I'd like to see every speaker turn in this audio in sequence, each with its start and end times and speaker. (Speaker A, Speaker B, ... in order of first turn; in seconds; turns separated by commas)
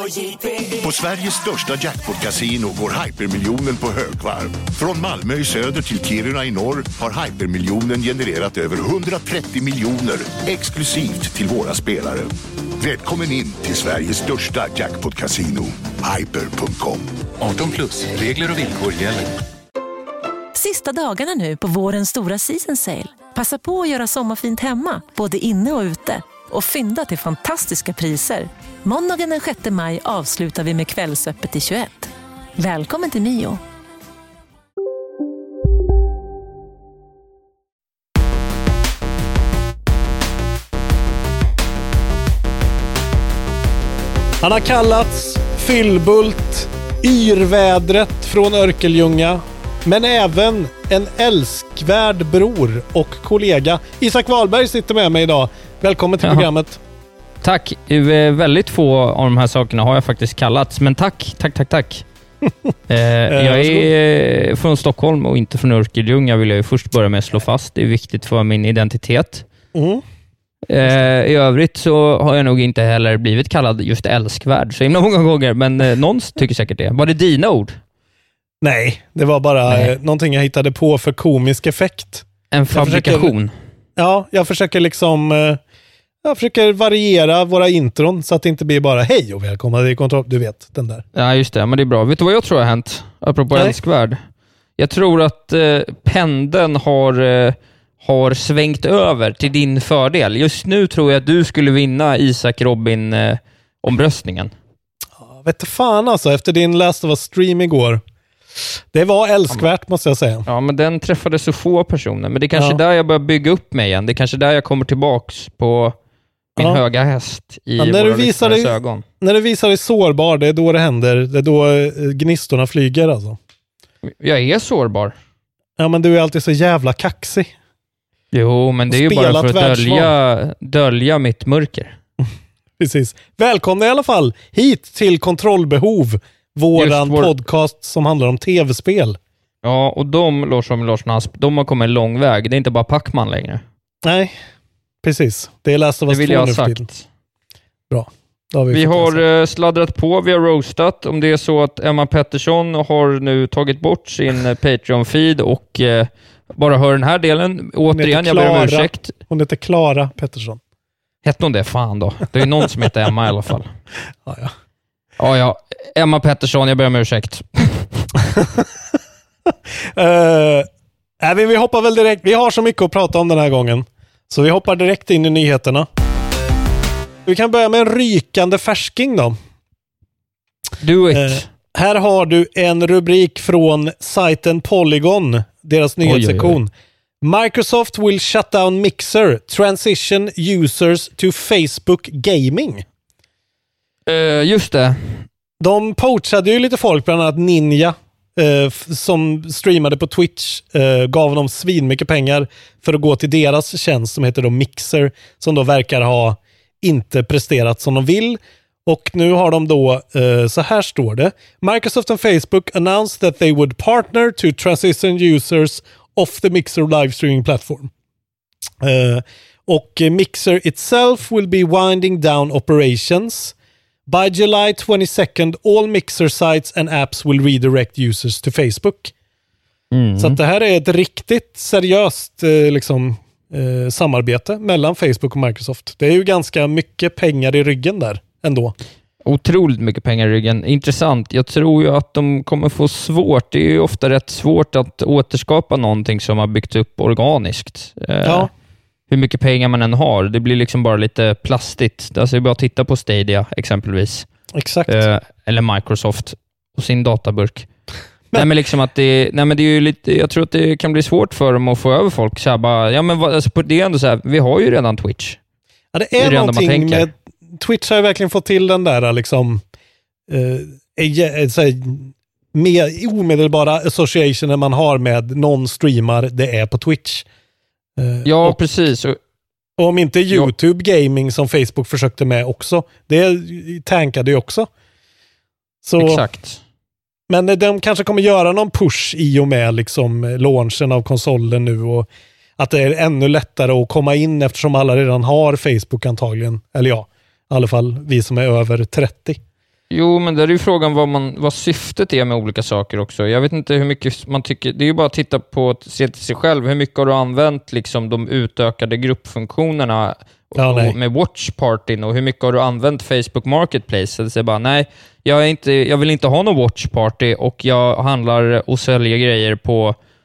Speaker A: 0.6-17.1, Speaker B: 17.4-19.3, Speaker C: 20.5-33.6, Speaker D: 44.4-56.8, Speaker E: 57.4-62.0, Speaker E: 62.9-69.4, Speaker D: 63.3-63.9, Speaker D: 69.7-70.0, Speaker E: 70.7-77.8, Speaker D: 78.6-83.3, Speaker E: 79.7-79.9, Speaker E: 82.5-83.5, Speaker D: 84.0-85.6, Speaker D: 86.2-91.0, Speaker E: 91.1-94.2, Speaker E: 94.8-104.5, Speaker D: 105.2-108.0, Speaker D: 108.9-110.4, Speaker E: 110.5-116.0, Speaker E: 116.6-119.0, Speaker D: 117.8-123.4, Speaker E: 124.0-125.1, Speaker D: 125.8-127.5, Speaker E: 128.3-131.9, Speaker D: 128.9-130.1, Speaker D: 132.2-139.2, Speaker E: 136.7-137.3, Speaker E: 139.6-143.6, Speaker D: 144.0-144.4, Speaker D: 145.0-146.9, Speaker E: 146.1-147.1, Speaker D: 147.9-149.2, Speaker E: 148.7-159.1, Speaker D: 157.9-160.6, Speaker E: 161.2-163.7, Speaker D: 164.2-164.5, Speaker E: 165.2-168.1, Speaker D: 168.3-168.7, Speaker D: 169.8-170.7, Speaker D: 171.2-175.9, Speaker D: 177.2-179.3, Speaker E: 180.8-181.5, Speaker D: 181.1-192.8, Speaker E: 186.0-186.6, Speaker E: 194.1-195.2, Speaker D: 195.6-217.9, Speaker D: 218.8-223.5, Speaker D: 224.1-229.1, Speaker E: 229.9-230.4, Speaker D: 230.2-238.7, Speaker E: 239.2-248.5, Speaker D: 248.2-248.5, Speaker E: 249.1-254.3, Speaker D: 254.5-255.0, Speaker E: 254.9-257.7, Speaker E: 258.3-265.4, Speaker D: 265.9-269.6, Speaker E: 266.2-267.1, Speaker D: 270.3-277.2, Speaker D: 278.0-278.6, Speaker E: 278.2-279.2, Speaker D: 279.8-284.7, Speaker D: 285.8-286.2, Speaker E: 286.0-286.6, Speaker D: 287.3-299.4, Speaker E: 299.9-320.0, Speaker D: 310.6-310.9